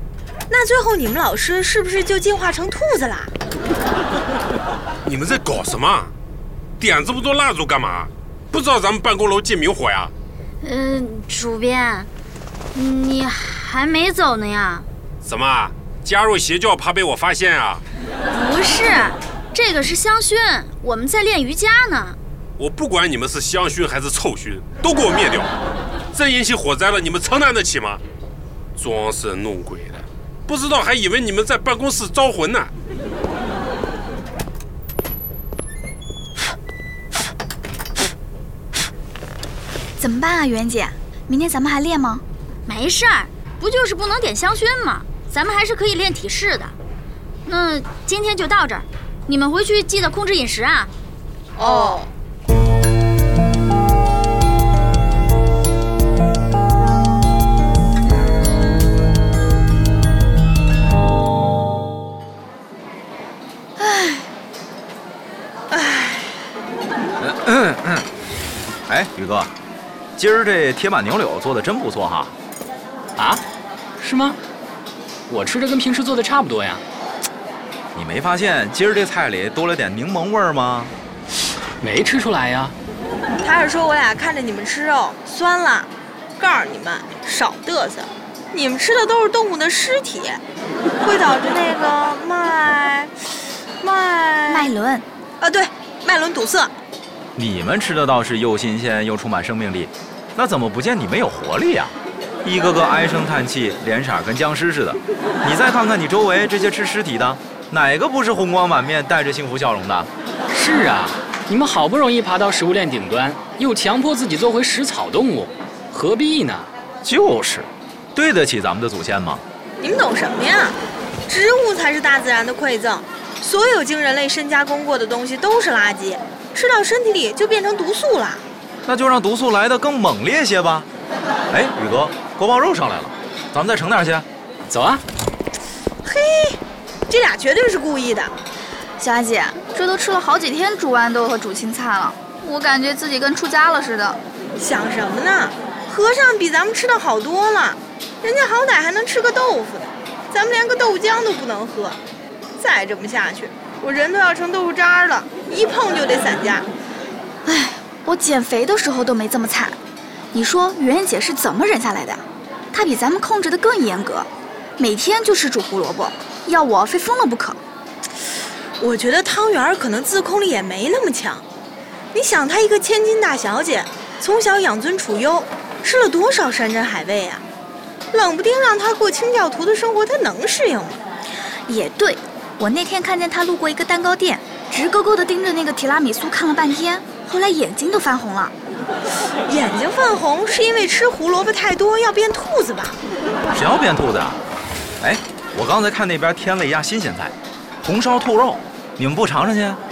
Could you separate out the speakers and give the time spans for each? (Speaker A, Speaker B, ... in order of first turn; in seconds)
Speaker A: 0.5-3.3, 51.6-52.1, 65.7-66.2, 83.4-90.4, 91.0-93.1, 93.8-94.7, 95.4-96.7, 119.8-120.8, 121.3-128.4, 136.0-138.3, 144.6-152.0, 152.6-156.7, 168.8-171.4, 172.1-177.4, 178.1-181.0, 189.5-192.9
Speaker B: 5.0-6.1, 6.8-10.1, 15.2-17.8, 22.6-25.5, 26.1-28.0, 28.8-32.7
Speaker C: 10.6-12.1, 12.7-14.9, 18.3-22.2, 42.6-46.7, 47.5-50.9, 51.7-51.9
Speaker D: 40.0-42.2, 63.8-64.3, 94.5-95.0, 139.0-144.2, 157.4-159.8, 160.3-167.6, 181.7-188.5
Speaker E: 67.2-68.1, 68.9-69.5, 70.2-72.3, 77.9-80.9, 97.3-110.1, 117.0-119.4, 128.8-130.9, 131.5-134.2, 193.5-194.4, 195.0-199.8
Speaker F: 73.2-73.4, 74.0-74.4, 75.3-76.8, 81.8-82.7, 110.5-116.7, 134.7-135.0